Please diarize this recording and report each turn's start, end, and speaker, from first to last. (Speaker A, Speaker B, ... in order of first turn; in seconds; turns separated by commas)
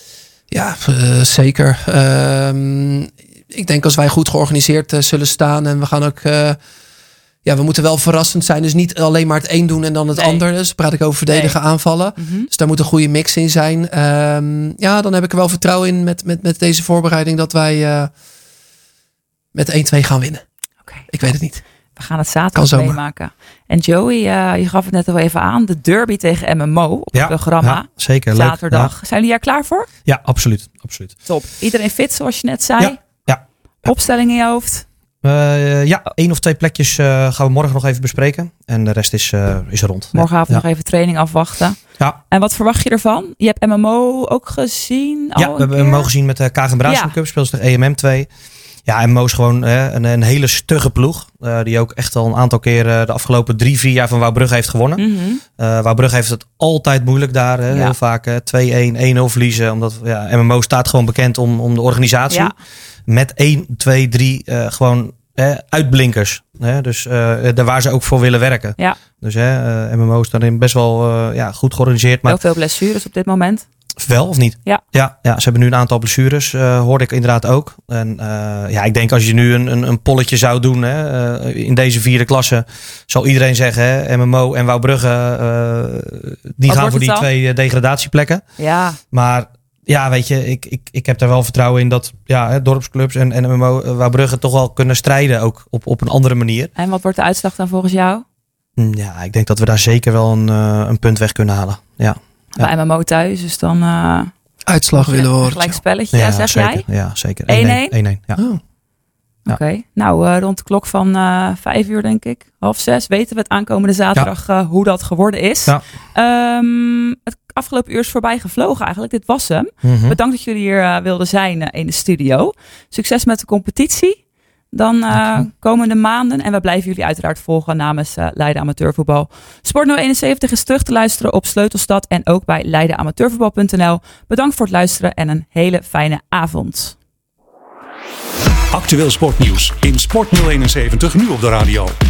Speaker A: 0.5-6.6, Speaker A: 7.4-18.1, Speaker B: 10.1-10.4, Speaker B: 11.3-11.6, Speaker B: 12.2-12.5, Speaker A: 19.5-20.4, Speaker A: 21.1-21.6, Speaker B: 21.9-29.9, Speaker A: 22.5-23.0, Speaker C: 27.1-28.9, Speaker C: 30.1-31.1, Speaker B: 31.3-33.0, Speaker C: 32.8-33.9, Speaker B: 33.8-34.8, Speaker C: 35.2-40.6, Speaker B: 40.1-41.8, Speaker B: 42.3-46.1, Speaker C: 45.4-48.3, Speaker B: 46.8-47.1, Speaker C: 48.9-55.0, Speaker B: 55.0-55.4, Speaker C: 55.6-62.5, Speaker B: 57.7-57.9, Speaker B: 62.3-62.5, Speaker C: 63.1-72.4, Speaker B: 72.2-73.6, Speaker C: 74.0-88.4, Speaker B: 86.7-87.3, Speaker B: 88.6-89.0, Speaker C: 89.1-96.7, Speaker B: 96.8-98.2, Speaker C: 98.8-102.7, Speaker B: 102.5-104.3, Speaker A: 104.7-105.8, Speaker B: 104.9-106.8, Speaker C: 106.1-108.4, Speaker B: 107.5-107.9, Speaker B: 109.5-124.2, Speaker C: 119.8-120.2, Speaker B: 124.7-136.9, Speaker C: 125.1-125.4, Speaker D: 138.7-141.9